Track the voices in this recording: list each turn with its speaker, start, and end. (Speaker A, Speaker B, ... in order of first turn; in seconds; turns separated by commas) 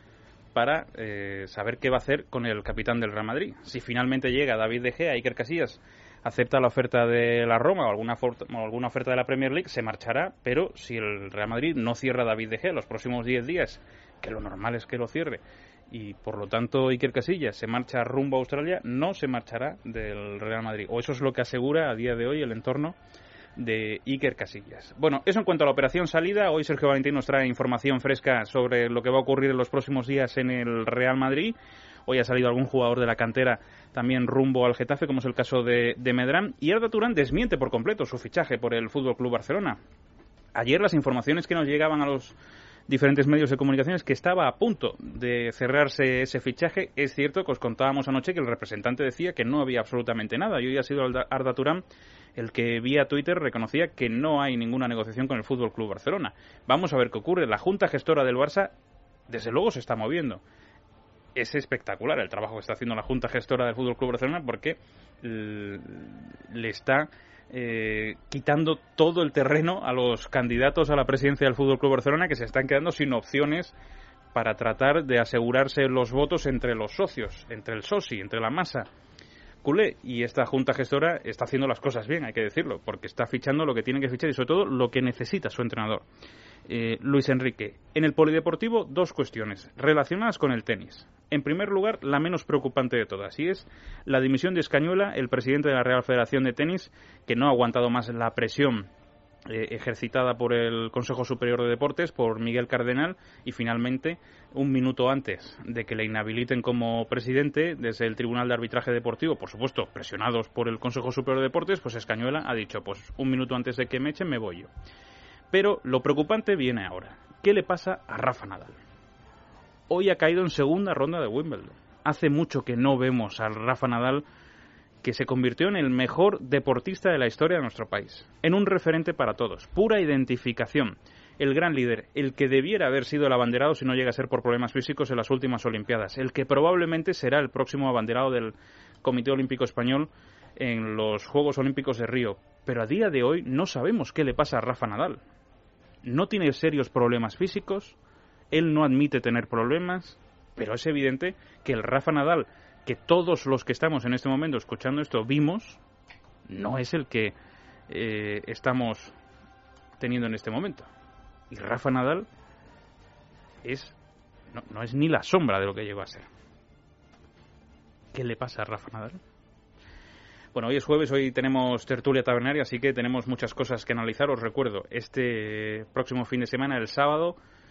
Speaker A: 0.5-23.0, Speaker A: 23.6-39.8, Speaker A: 40.5-42.4, Speaker A: 42.9-51.8, Speaker A: 52.4-58.7, Speaker A: 59.3-60.4, Speaker A: 61.4-73.8, Speaker A: 74.3-78.9, Speaker A: 79.6-86.0, Speaker A: 86.7-98.9, Speaker A: 99.5-114.7, Speaker A: 115.5-118.8, Speaker A: 119.9-124.2, Speaker A: 125.0-145.2, Speaker A: 146.0-148.0, Speaker A: 148.5-155.8, Speaker A: 156.5-157.3, Speaker A: 157.9-159.1, Speaker A: 160.0-160.9, Speaker A: 161.5-162.3, Speaker A: 163.6-164.0, Speaker A: 164.5-166.3, Speaker A: 168.1-169.2, Speaker A: 170.5-177.4